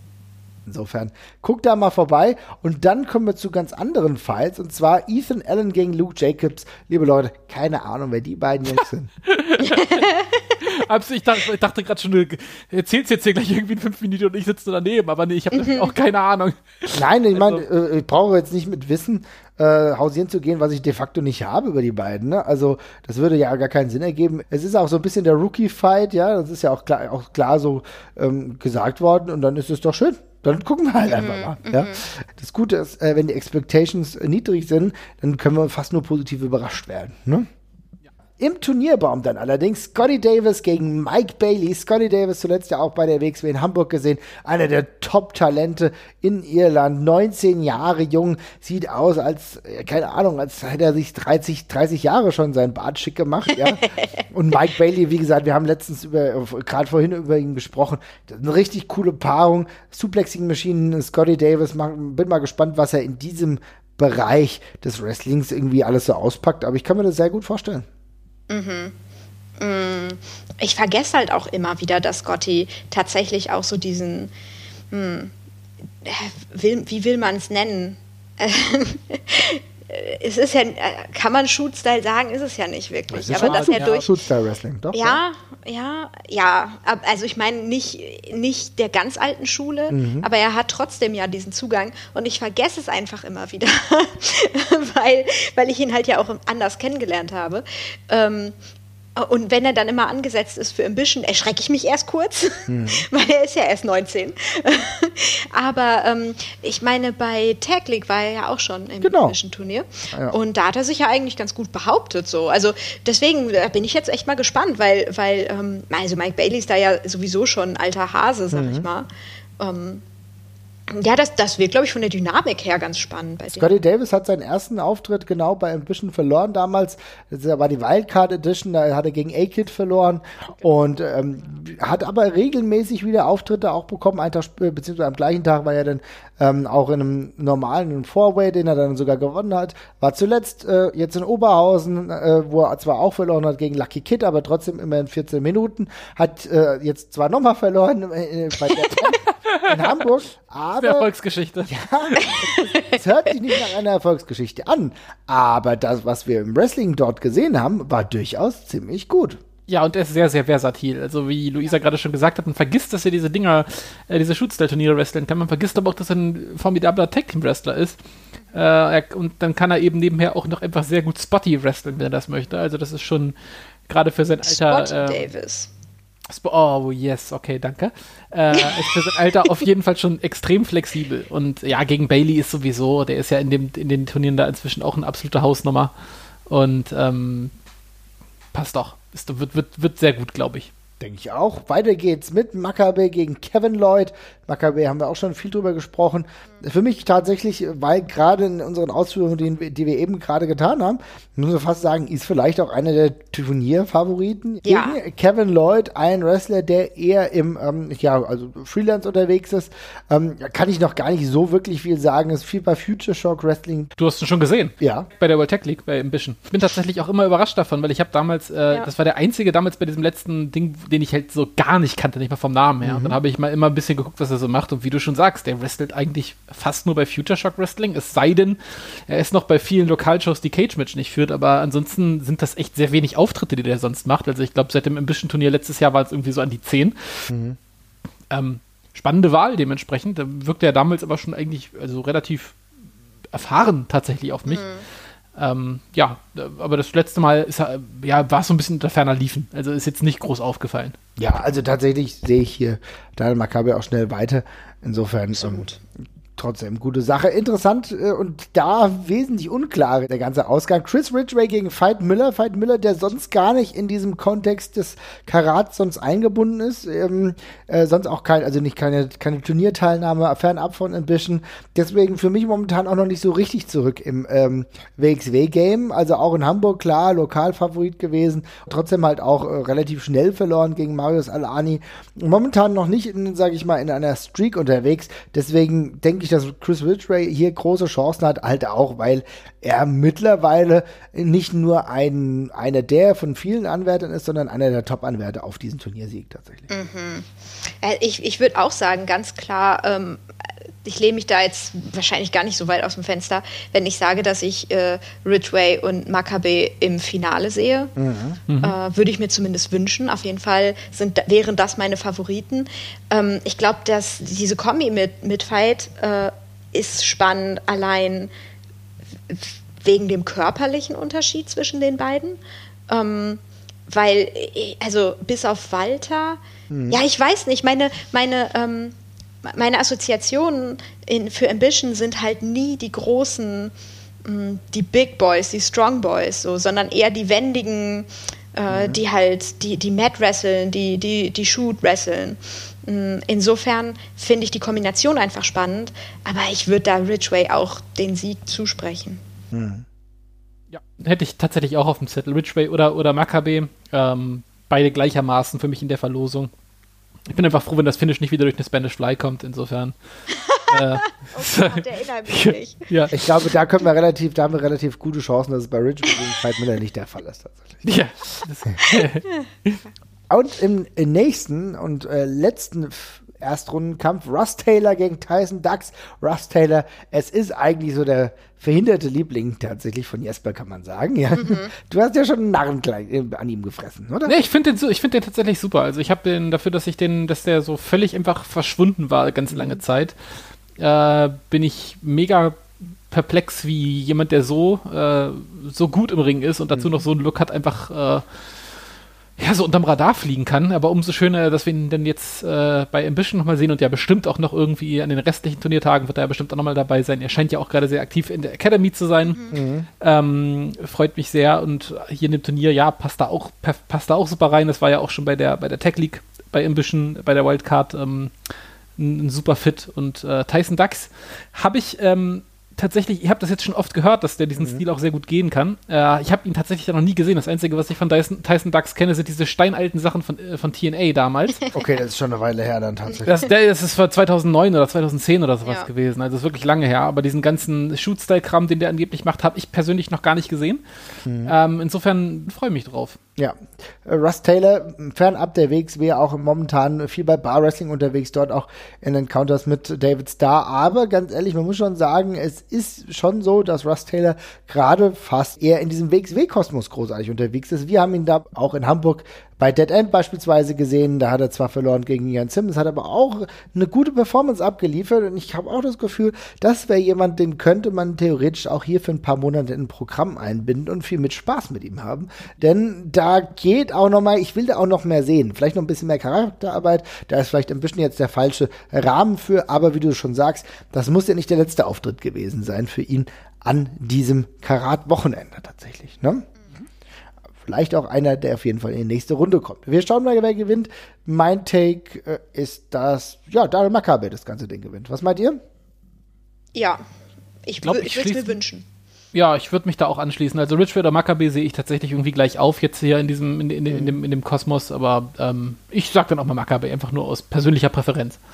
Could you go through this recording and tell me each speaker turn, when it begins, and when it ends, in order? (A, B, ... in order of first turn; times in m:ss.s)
0:00.7-0:09.1 A
0:08.8-0:17.6 B
0:09.6-0:10.5 C
0:15.6-0:15.9 C
0:16.9-0:37.5 A
0:31.1-0:32.0 C
0:38.4-1:07.9 A
0:53.8-0:54.0 C
1:08.5-1:08.9 C
1:09.6-1:14.3 C
1:14.9-1:15.3 C
1:16.0-1:24.1 C
1:23.1-1:25.2 A
1:23.3-1:24.0 B
1:24.9-1:38.6 C
1:29.9-1:30.3 A
1:39.2-1:59.1 C
1:42.7-1:43.0 A
1:49.0-1:49.4 A
1:58.5-1:58.9 A
1:59.6-2:00.0 C
2:00.9-2:03.8 C
2:03.6-2:31.1 A
2:29.2-2:30.0 B
2:30.8-2:32.4 B
2:31.7-2:39.4 A
2:32.2-2:33.0 C
2:39.7-2:48.0 B
2:48.5-2:53.3 B
2:53.9-2:55.3 B
2:54.4-2:55.7 C
2:56.3-3:05.9 B
3:06.5-3:07.5 B
3:08.5-3:10.7 B
3:11.0-3:33.9 A
3:24.6-3:25.0 C
3:34.0-3:57.3 B
3:34.8-3:35.1 A
3:42.8-3:43.2 A
3:57.3-3:57.6 A
3:58.3-4:02.6 B
4:03.3-4:04.7 B
4:04.5-4:04.8 C
4:05.4-4:11.0 B
4:11.2-4:15.7 A
4:15.4-4:15.8 C
4:16.4-4:56.7 A
4:56.7-5:00.2 C
5:00.8-5:07.9 C
5:08.0-5:08.4 A
5:08.5-5:08.8 B
5:08.6-5:18.3 C
5:19.3-5:49.2 C
5:26.7-5:27.0 A
5:38.7-5:39.0 A
5:49.5-5:49.8 A
5:50.7-5:56.5 B
5:57.3-6:00.0 B
6:00.3-6:02.9 C
6:00.6-6:03.4 B
6:03.1-6:07.8 A
6:07.8-6:09.8 B
6:10.3-6:24.4 A
6:21.4-6:21.7 C
6:24.3-6:30.2 B
6:29.5-6:29.8 A
6:30.8-6:38.2 B
6:39.4-7:11.7 B
6:49.5-6:49.9 A
7:04.6-7:04.8 A
7:11.7-7:13.4 A
7:13.2-7:20.8 B
7:21.3-7:21.6 A
7:21.4-7:23.2 B
7:23.4-8:06.5 A
8:07.6-8:15.6 A
8:16.8-8:17.0 C
8:17.7-8:18.9 C
8:17.8-8:18.6 B
8:19.3-8:28.4 B
8:23.9-8:24.2 A